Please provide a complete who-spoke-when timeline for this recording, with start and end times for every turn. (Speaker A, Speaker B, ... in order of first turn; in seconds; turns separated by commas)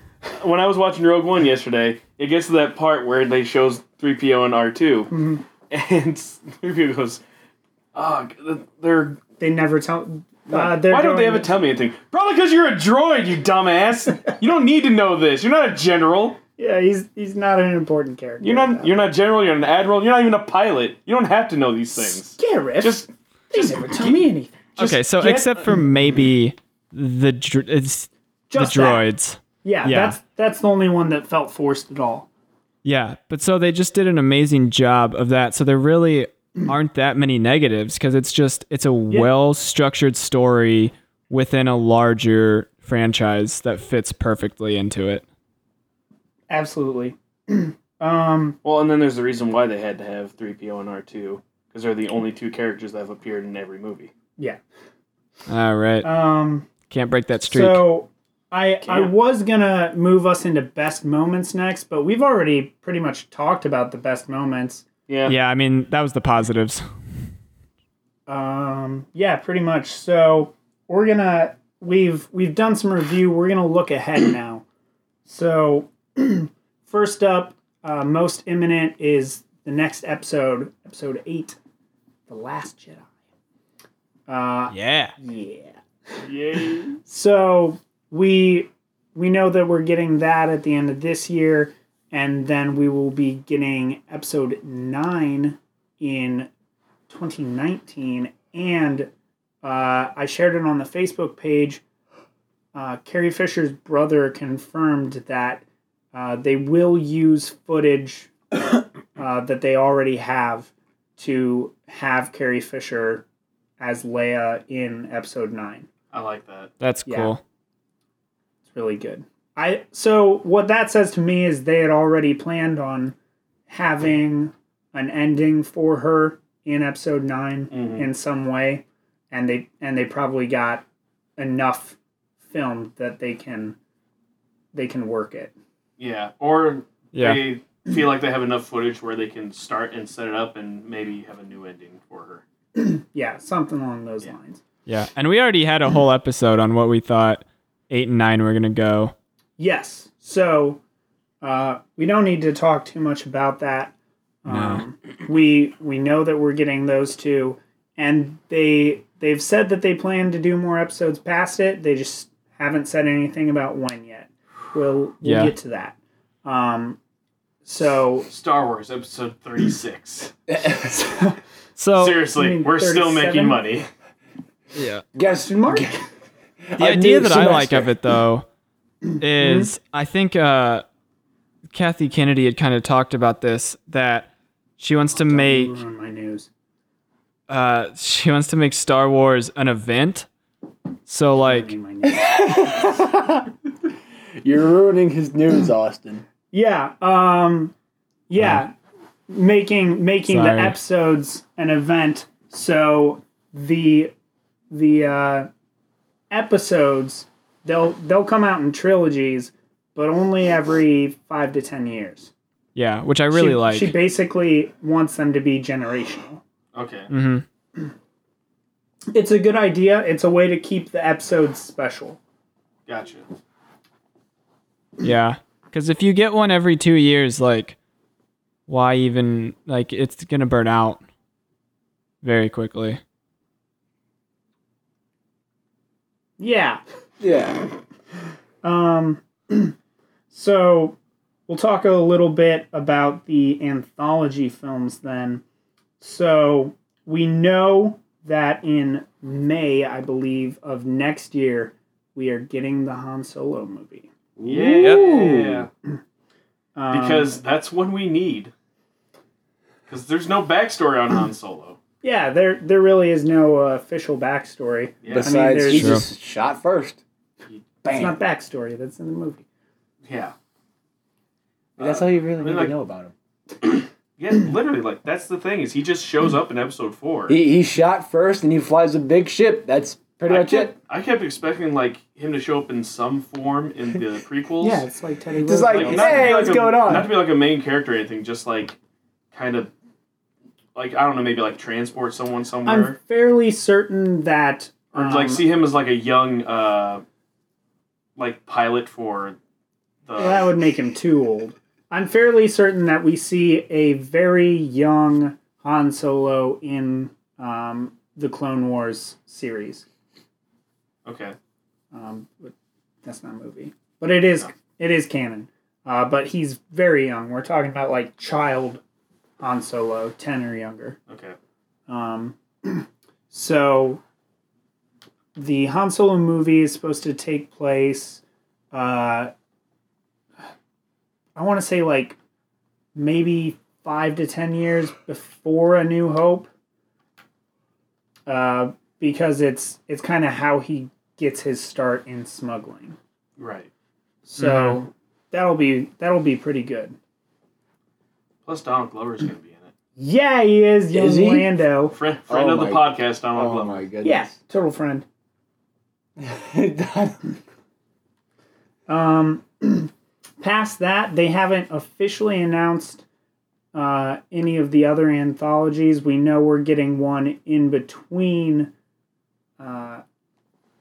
Speaker A: 0.4-5.1, Speaker B: 5.1-5.4, Speaker A: 5.7-7.2, Speaker A: 7.9-9.2, Speaker B: 9.4-11.5, Speaker A: 10.5-16.4, Speaker B: 16.6-18.9, Speaker A: 18.4-24.3, Speaker B: 22.4-25.8, Speaker C: 24.8-30.2, Speaker B: 28.5-29.1, Speaker B: 29.6-32.3, Speaker C: 32.8-45.2, Speaker B: 46.5-48.6, Speaker A: 48.6-54.1, Speaker C: 55.5-56.1, Speaker B: 56.0-56.7, Speaker C: 56.9-57.9, Speaker B: 57.5-64.8, Speaker A: 58.8-59.1, Speaker A: 65.1-65.3, Speaker C: 65.3-66.8, Speaker B: 68.3-74.6, Speaker B: 75.3-81.6, Speaker B: 82.3-83.1, Speaker B: 84.3-85.8, Speaker C: 84.7-85.2, Speaker A: 86.2-87.0, Speaker B: 86.9-96.5, Speaker B: 97.1-99.1, Speaker B: 99.6-101.8, Speaker B: 102.7-108.3, Speaker B: 109.2-113.2, Speaker B: 113.8-115.9, Speaker A: 116.1-116.7, Speaker C: 116.8-117.4, Speaker B: 117.1-117.3, Speaker B: 118.7-123.2, Speaker B: 123.7-130.8, Speaker A: 127.7-128.1, Speaker B: 131.4-132.0, Speaker B: 132.5-133.8, Speaker B: 134.7-135.5, Speaker A: 136.0-142.4, Speaker C: 137.1-137.5, Speaker B: 142.8-144.6, Speaker C: 144.9-149.1, Speaker B: 149.6-150.8, Speaker B: 151.4-153.9, Speaker B: 154.4-167.0, Speaker C: 154.5-154.8, Speaker C: 165.2-165.5, Speaker B: 167.6-168.3, Speaker A: 168.3-170.3, Speaker D: 170.5-171.0, Speaker B: 170.8-171.4, Speaker C: 171.8-172.2, Speaker B: 171.9-173.6, Speaker A: 171.9-173.9, Speaker C: 174.8-175.0, Speaker D: 175.2-176.0, Speaker B: 175.3-176.0, Speaker D: 176.7-177.9, Speaker C: 176.8-178.5, Speaker C: 179.2-180.8, Speaker B: 179.4-179.7, Speaker C: 181.7-185.8, Speaker B: 185.1-186.5, Speaker C: 187.5-190.3, Speaker C: 191.1-191.7, Speaker B: 191.4-193.1, Speaker D: 192.2-193.5, Speaker D: 194.4-196.2, Speaker B: 196.5-197.7, Speaker B: 198.3-198.7, Speaker C: 198.4-198.6, Speaker B: 199.3-204.1, Speaker C: 200.3-200.8, Speaker B: 204.7-205.5, Speaker B: 206.3-212.3, Speaker C: 212.8-213.9, Speaker B: 213.3-216.4, Speaker A: 216.7-217.1, Speaker C: 217.1-217.4, Speaker B: 219.1-222.2, Speaker A: 222.9-223.3, Speaker C: 225.0-227.8, Speaker C: 228.7-231.0, Speaker C: 232.2-233.0, Speaker B: 236.4-236.8, Speaker D: 237.2-237.6, Speaker B: 238.6-239.8, Speaker B: 240.3-241.0, Speaker B: 241.5-245.4, Speaker B: 246.0-254.1, Speaker D: 254.4-255.7, Speaker A: 254.4-255.7, Speaker B: 256.8-257.4, Speaker A: 256.9-258.5, Speaker A: 259.9-261.8, Speaker B: 262.0-266.0, Speaker A: 265.0-265.3, Speaker D: 265.1-267.0, Speaker C: 265.7-266.1, Speaker D: 267.8-268.2, Speaker B: 267.9-269.4, Speaker A: 270.1-270.3, Speaker A: 271.8-272.8, Speaker D: 271.8-273.1, Speaker A: 273.6-277.4, Speaker D: 277.3-280.7, Speaker A: 280.3-284.8, Speaker B: 284.6-286.5, Speaker D: 285.4-287.1, Speaker A: 285.7-288.8, Speaker A: 289.3-289.7, Speaker A: 290.8-293.0, Speaker B: 292.7-295.4, Speaker A: 294.9-297.0, Speaker A: 298.2-299.4, Speaker A: 300.1-300.5, Speaker B: 300.2-309.9, Speaker A: 311.1-311.4, Speaker B: 311.9-312.5, Speaker B: 313.0-318.8, Speaker B: 319.4-321.0, Speaker A: 321.1-321.4, Speaker B: 321.9-324.0, Speaker B: 325.4-329.3, Speaker B: 331.4-332.2, Speaker B: 332.9-336.5, Speaker B: 338.3-343.0, Speaker A: 343.4-343.7, Speaker B: 344.3-347.0, Speaker C: 344.4-344.8, Speaker A: 348.5-349.7, Speaker B: 350.0-351.9, Speaker D: 350.9-351.5, Speaker A: 351.9-353.9, Speaker D: 352.3-354.3, Speaker B: 354.0-355.1, Speaker D: 356.2-357.3, Speaker B: 358.9-363.0, Speaker B: 363.7-368.7, Speaker B: 369.6-370.0